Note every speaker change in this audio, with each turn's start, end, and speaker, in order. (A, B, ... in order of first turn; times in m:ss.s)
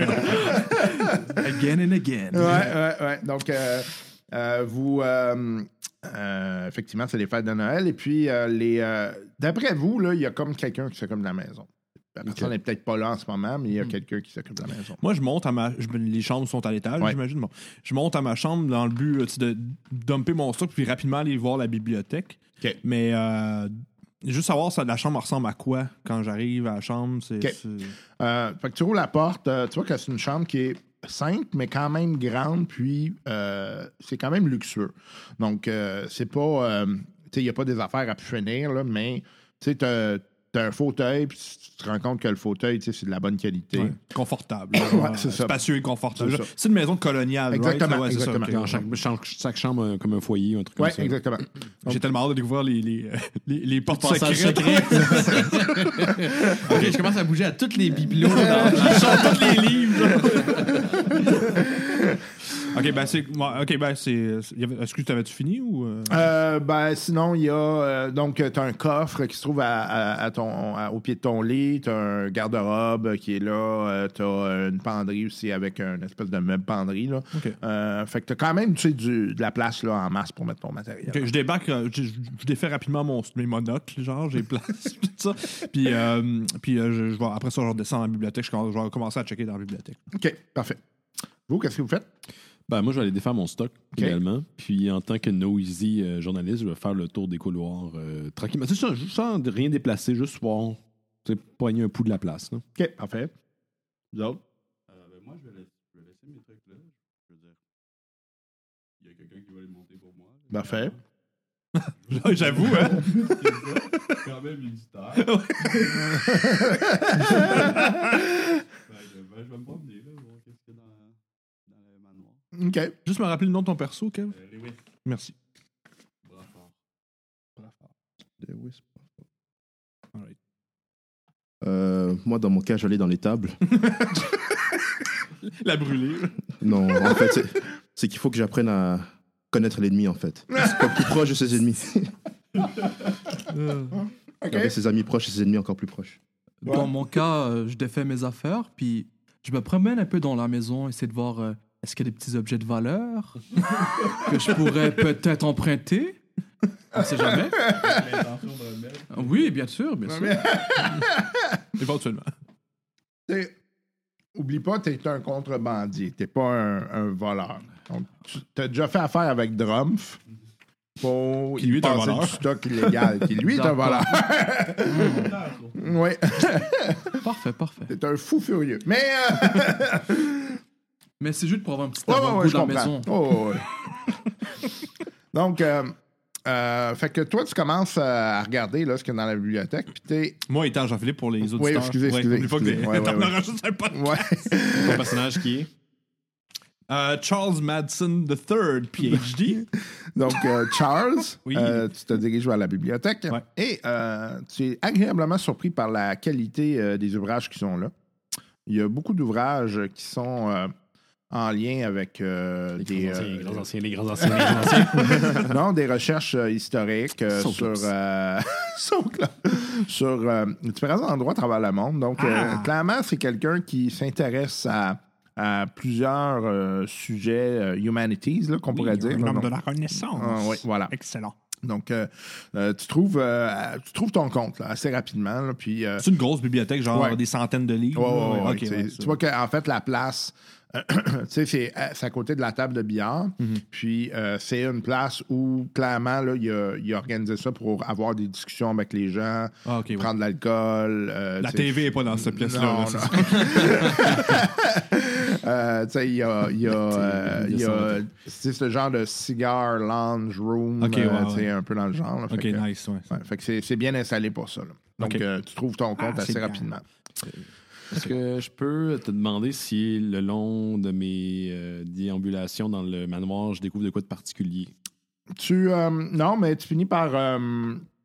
0:00.4-0:01.1 A
0:01.4-0:02.8 B
0:02.3-0:15.0 A
0:15.0-0:27.9 C
0:28.2-0:44.0 A
0:43.7-0:48.7 C
0:44.7-0:45.6 A
0:46.2-0:46.5 A
0:47.5-0:48.8 A
0:48.4-0:51.2 D
0:50.8-0:52.0 A
0:51.8-0:56.1 C
0:53.9-1:00.8 D
0:56.6-0:57.0 C
0:58.3-1:00.8 C
0:58.4-0:58.8 A
1:00.6-1:01.2 E
1:01.6-1:02.2 A
1:02.7-1:06.2 C
1:02.8-1:03.6 E
1:06.1-1:21.3 A
1:17.3-1:17.6 C
1:21.1-1:30.0 C
1:30.1-1:30.8 A
1:31.5-1:32.1 A
1:32.7-1:42.6 D
1:42.8-1:43.3 A
1:44.1-1:44.4 A
1:44.9-1:47.6 E
1:49.0-1:51.0 E
1:50.5-1:50.9 A
1:52.0-1:56.1 E
1:52.1-1:54.2 C
1:55.2-1:56.4 C
1:56.3-1:57.9 A
1:57.3-1:57.8 E
1:57.4-1:57.9 C
1:58.8-2:01.2 E
2:01.7-2:02.4 E
2:02.6-2:02.9 A
2:03.0-2:04.4 C
2:04.3-2:04.8 E
2:05.0-2:05.3 C
2:06.2-2:06.7 E
2:08.4-2:09.0 F
2:11.6-2:13.6 F
2:13.8-2:14.4 C
2:15.4-2:17.1 C
2:16.6-2:22.1 F
2:20.6-2:20.8 A
2:23.6-2:23.9 B
2:23.9-2:24.7 A
2:24.5-2:26.2 F
2:26.6-2:33.4 B
2:34.2-2:36.2 B
2:36.9-2:37.7 B
2:37.0-2:37.8 A
2:37.6-2:39.5 E
2:39.1-2:40.6 B
2:40.1-2:41.6 A
2:41.8-2:42.3 C
2:43.3-2:43.5 A
2:44.4-2:50.2 A
2:51.0-2:57.2 A
2:51.6-2:52.4 C
2:53.4-2:54.3 B
2:54.9-2:55.4 B
2:55.0-2:56.0 E
2:57.2-2:57.9 B
2:57.9-3:00.6 A
3:01.2-3:03.3 B
3:02.1-3:03.7 A
3:05.3-3:06.0 A
3:06.5-3:10.4 A
3:10.5-3:14.6 C
3:11.5-3:13.4 A
3:13.9-3:15.1 A
3:14.7-3:15.7 D
3:16.9-3:19.6 C
3:20.2-3:27.9 A
3:21.5-3:21.8 C
3:28.7-3:30.7 A
3:31.3-3:33.7 A
3:32.8-3:35.6 D
3:34.2-3:49.5 A
3:37.3-3:37.9 D
3:42.2-3:42.7 C
3:48.7-3:51.3 C
3:50.1-3:50.9 A
3:51.6-3:56.1 A
3:56.0-3:59.2 C
3:56.9-3:57.2 A
3:58.0-4:26.8 A
4:09.7-4:10.1 C
4:11.4-4:14.4 C
4:17.0-4:18.0 D
4:20.8-4:21.5 C
4:22.3-4:23.1 C
4:26.0-4:26.7 C
4:27.9-4:34.7 D
4:35.4-4:37.8 A